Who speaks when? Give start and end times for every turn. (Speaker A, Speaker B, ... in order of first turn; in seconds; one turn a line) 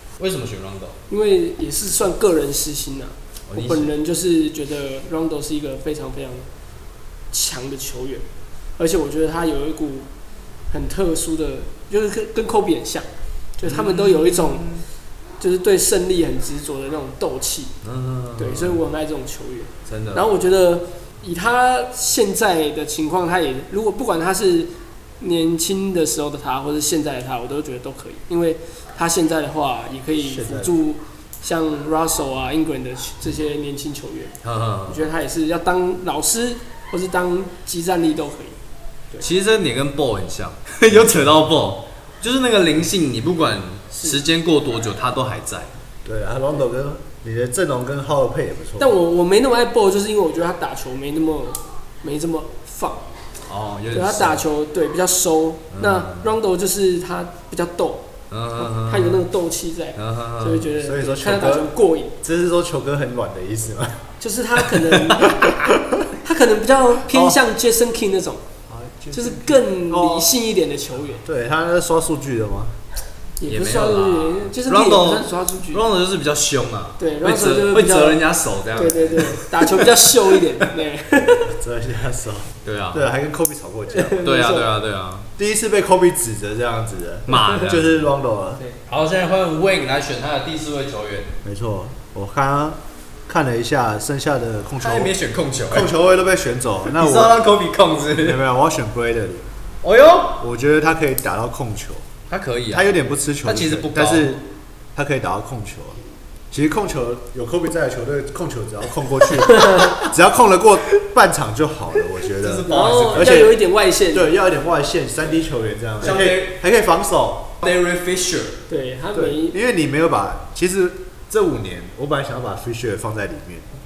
Speaker A: 0.2-1.0
Speaker B: 1.1-6.5
Speaker A: 3.5-3.9
Speaker B: 7.3-8.2
Speaker B: 8.8-10.1
Speaker B: 10.7-14.7
Speaker A: 13.6-14.8
Speaker B: 15.4-17.7
Speaker A: 17.8-18.8
Speaker B: 18.4-34.4
Speaker A: 19.9-20.3
Speaker C: 30.3-30.7
Speaker A: 34.4-35.1
Speaker B: 34.9-38.6
Speaker A: 39.2-45.7
Speaker B: 44.0-44.2
Speaker C: 46.0-48.9
Speaker B: 48.8-53.0
Speaker A: 53.5-54.4
Speaker B: 53.9-58.0
Speaker A: 55.7-56.4
Speaker A: 58.3-59.2
Speaker B: 58.6-62.1
Speaker A: 60.0-60.7
Speaker C: 60.8-64.0
Speaker B: 64.2-68.4
Speaker C: 65.5-65.7
Speaker C: 67.1-67.4
Speaker C: 68.7-70.3
Speaker B: 69.1-71.2
Speaker C: 71.2-72.8
Speaker B: 73.4-75.8
Speaker A: 73.5-80.4
Speaker B: 77.0-78.2
Speaker B: 78.7-81.5
Speaker C: 81.2-84.2
Speaker A: 82.7-83.1
Speaker B: 83.9-84.7
Speaker A: 84.2-85.3
Speaker C: 85.4-88.6
Speaker A: 87.3-88.1
Speaker B: 87.4-87.6
Speaker A: 88.9-91.3
Speaker C: 91.4-95.1
Speaker A: 94.8-95.9
Speaker C: 95.7-97.4
Speaker A: 96.9-98.4
Speaker C: 98.2-99.5
Speaker A: 99.8-100.4
Speaker C: 100.4-102.1
Speaker A: 102.3-102.9
Speaker C: 102.7-104.4
Speaker A: 103.5-104.4
Speaker C: 105.0-113.5
Speaker A: 112.4-113.4
Speaker B: 112.7-114.3
Speaker C: 114.1-117.6
Speaker A: 116.0-116.6
Speaker A: 117.6-118.6
Speaker B: 118.7-119.6
Speaker C: 119.1-123.7